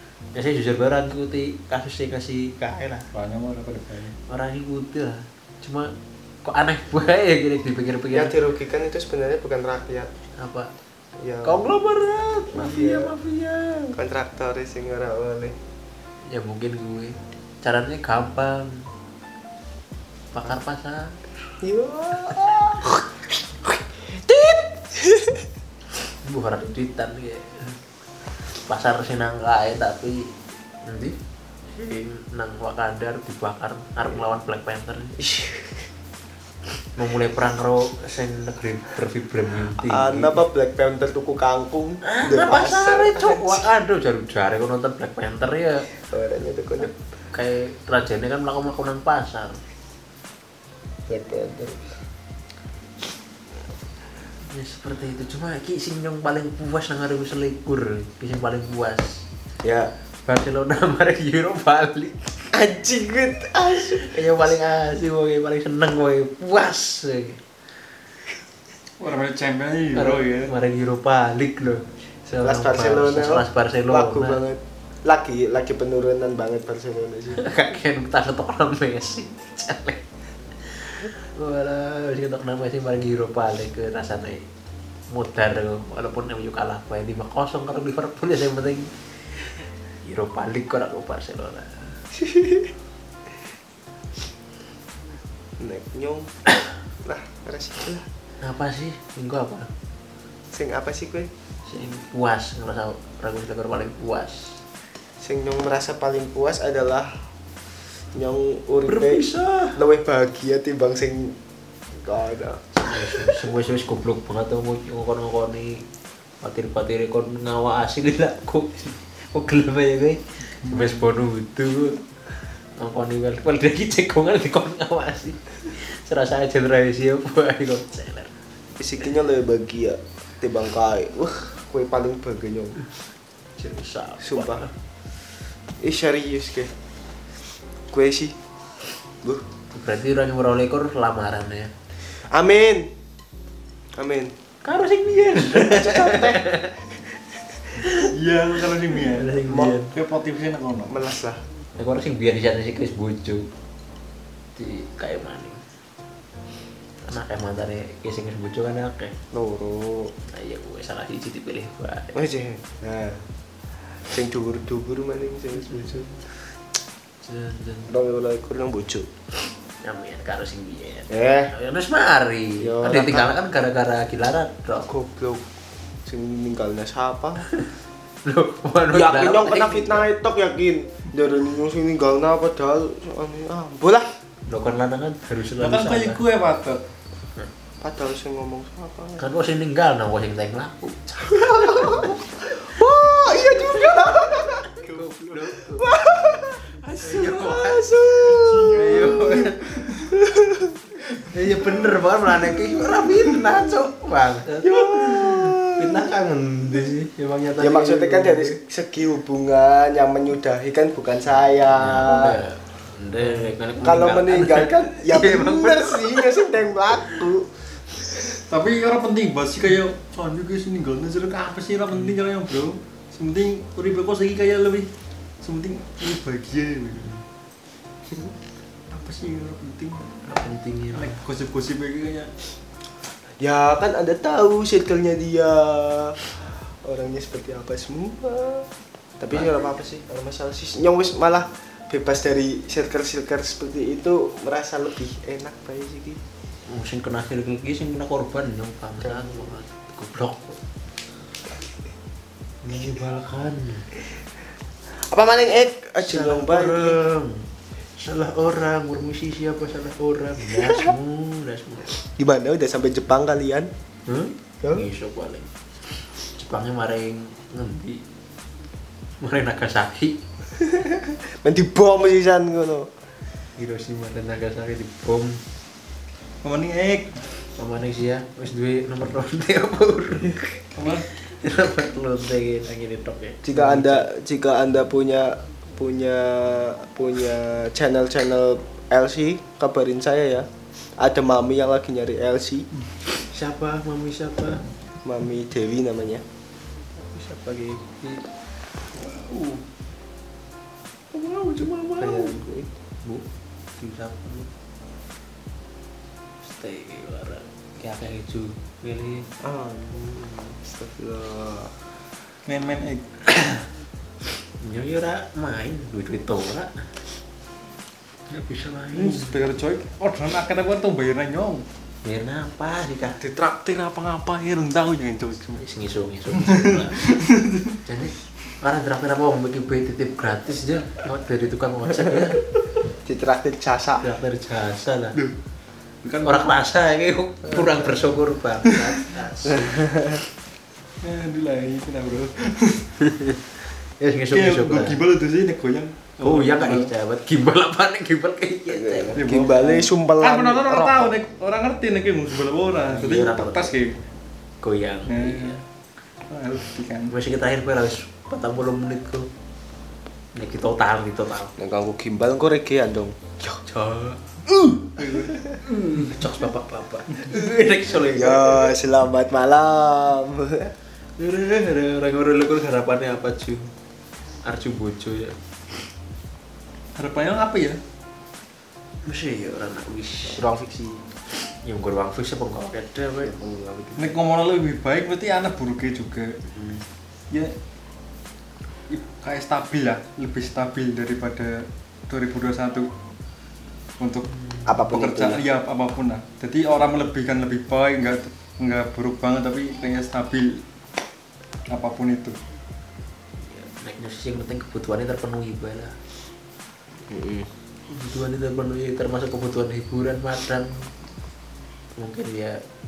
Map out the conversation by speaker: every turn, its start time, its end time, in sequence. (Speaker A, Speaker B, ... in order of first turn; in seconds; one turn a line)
Speaker A: 0.3-3.1
Speaker B: 3.1-4.1
Speaker A: 4.3-5.9
Speaker A: 6.4-8.3
Speaker C: 8.1-10.1
Speaker A: 10.4-10.7
Speaker C: 11.2-11.6
Speaker A: 11.4-13.9
Speaker C: 12.5-13.1
Speaker C: 13.9-15.6
Speaker A: 16.3-18.9
Speaker A: 20.3-21.2
Speaker C: 21.6-23.0
Speaker C: 24.1-25.4
Speaker A: 26.2-27.8
Speaker A: 28.6-31.2
Speaker A: 31.7-35.1
Speaker C: 35.2-35.9
Speaker A: 37.0-40.4
Speaker C: 39.8-43.7
Speaker A: 42.0-45.9
Speaker C: 46.0-46.9
Speaker A: 46.9-49.6
Speaker C: 51.1-51.9
Speaker A: 54.5-59.2
Speaker C: 59.6-59.9
Speaker A: 60.2-62.3
Speaker C: 62.5-64.3
Speaker A: 63.9-67.4
Speaker B: 69.0-70.5
Speaker A: 69.9-74.4
Speaker C: 72.4-77.4
Speaker A: 77.3-80.0
Speaker A: 80.7-84.5
Speaker A: 85.1-91.9
Speaker C: 92.1-92.7
Speaker C: 95.6-96.3
Speaker C: 97.0-98.1
Speaker A: 98.4-99.7
Speaker C: 100.5-101.3
Speaker A: 101.7-104.6
Speaker C: 105.2-107.2
Speaker C: 108.1-111.4
Speaker A: 108.9-109.8
Speaker C: 111.9-113.5
Speaker A: 112.7-115.8
Speaker A: 116.4-122.0
Speaker B: 120.6-121.1
Speaker A: 122.7-128.3
Speaker C: 128.8-132.8
Speaker A: 133.6-134.7
Speaker C: 134.2-134.7
Speaker C: 135.8-136.7
Speaker C: 137.9-138.4
Speaker A: 139.7-141.7
Speaker C: 142.2-142.9
Speaker C: 144.0-144.3
Speaker A: 144.6-146.7
Speaker C: 145.4-146.7
Speaker A: 147.8-148.1
Speaker B: 148.0-151.0
Speaker A: 148.9-149.9
Speaker C: 149.5-149.7
Speaker C: 150.9-151.4
Speaker A: 151.8-153.5
Speaker A: 154.6-155.6
Speaker A: 157.0-159.2
Speaker C: 159.3-160.1
Speaker A: 160.3-162.1
Speaker C: 162.1-163.2
Speaker C: 164.1-166.1
Speaker A: 165.7-166.0
Speaker A: 167.2-167.9
Speaker C: 167.9-169.1
Speaker A: 169.8-174.9
Speaker C: 171.1-171.5
Speaker C: 172.6-173.3
Speaker C: 174.9-175.4
Speaker C: 176.1-177.5
Speaker A: 178.2-180.1
Speaker C: 178.9-184.1
Speaker A: 184.5-186.2
Speaker B: 185.6-186.8
Speaker C: 187.8-189.2
Speaker A: 189.2-196.0
Speaker C: 191.2-194.9
Speaker C: 195.6-200.9
Speaker A: 196.7-197.9
Speaker B: 198.2-199.4
Speaker A: 198.7-199.8
Speaker A: 201.2-208.6
Speaker C: 202.3-203.7
Speaker C: 204.6-206.1
Speaker C: 207.6-212.4
Speaker A: 211.7-217.2
Speaker C: 213.8-218.4
Speaker B: 218.5-224.9
Speaker B: 225.4-227.1
Speaker B: 228.9-230.2
Speaker A: 230.3-231.2
Speaker B: 230.9-232.3
Speaker C: 233.4-236.3
Speaker C: 236.8-238.7
Speaker C: 239.2-246.2
Speaker A: 246.7-250.6
Speaker C: 249.0-249.5
Speaker A: 252.6-253.9
Speaker C: 254.9-257.0
Speaker A: 256.0-261.9
Speaker C: 260.5-260.9
Speaker C: 262.0-263.7
Speaker A: 264.1-265.5
Speaker A: 266.3-268.0
Speaker A: 269.2-270.2
Speaker C: 270.6-272.9
Speaker A: 273.6-275.4
Speaker B: 276.4-277.2
Speaker A: 277.6-280.6
Speaker B: 280.7-281.1
Speaker A: 281.2-284.1
Speaker C: 283.4-292.7
Speaker A: 293.3-294.6
Speaker C: 295.0-296.2
Speaker A: 297.1-298.2
Speaker B: 298.9-299.6
Speaker A: 301.1-302.4
Speaker C: 302.0-302.7
Speaker A: 303.8-304.5
Speaker A: 306.4-309.3
Speaker C: 309.4-311.7
Speaker B: 312.4-313.1
Speaker A: 313.3-313.6
Speaker A: 314.6-316.7
Speaker A: 318.3-319.4
Speaker B: 318.9-321.6
Speaker A: 322.0-323.2
Speaker B: 323.2-325.6
Speaker A: 325.6-327.0
Speaker B: 326.3-327.8
Speaker A: 327.8-332.5
Speaker C: 333.0-334.1
Speaker A: 334.0-335.2
Speaker B: 336.0-336.5
Speaker A: 336.2-339.9
Speaker C: 339.4-340.2
Speaker B: 341.0-342.9
Speaker A: 343.0-343.4
Speaker A: 344.0-345.0
Speaker B: 344.3-346.9
Speaker A: 346.2-349.2
Speaker C: 348.7-351.2
Speaker B: 349.1-353.9
Speaker A: 352.9-353.7
Speaker A: 354.6-355.6
Speaker B: 355.1-355.6
Speaker B: 356.3-357.1
Speaker A: 357.1-359.3
Speaker A: 360.3-361.5
Speaker C: 361.6-363.6
Speaker A: 363.6-364.9
Speaker B: 365.0-365.5
Speaker A: 365.5-368.7
Speaker C: 368.1-370.7
Speaker A: 371.2-373.7
Speaker A: 374.4-375.4
Speaker B: 376.9-377.8
Speaker A: 379.0-380.4
Speaker C: 380.3-381.0
Speaker A: 381.6-383.3
Speaker C: 383.2-384.1
Speaker B: 383.9-386.4
Speaker A: 386.5-386.8
Speaker B: 388.9-392.9
Speaker B: 394.0-400.6
Speaker A: 394.3-394.7
Speaker C: 394.6-395.4
Speaker B: 401.7-402.4
Speaker A: 403.4-405.9
Speaker C: 407.1-407.5
Speaker A: 407.9-410.9
Speaker A: 411.9-412.6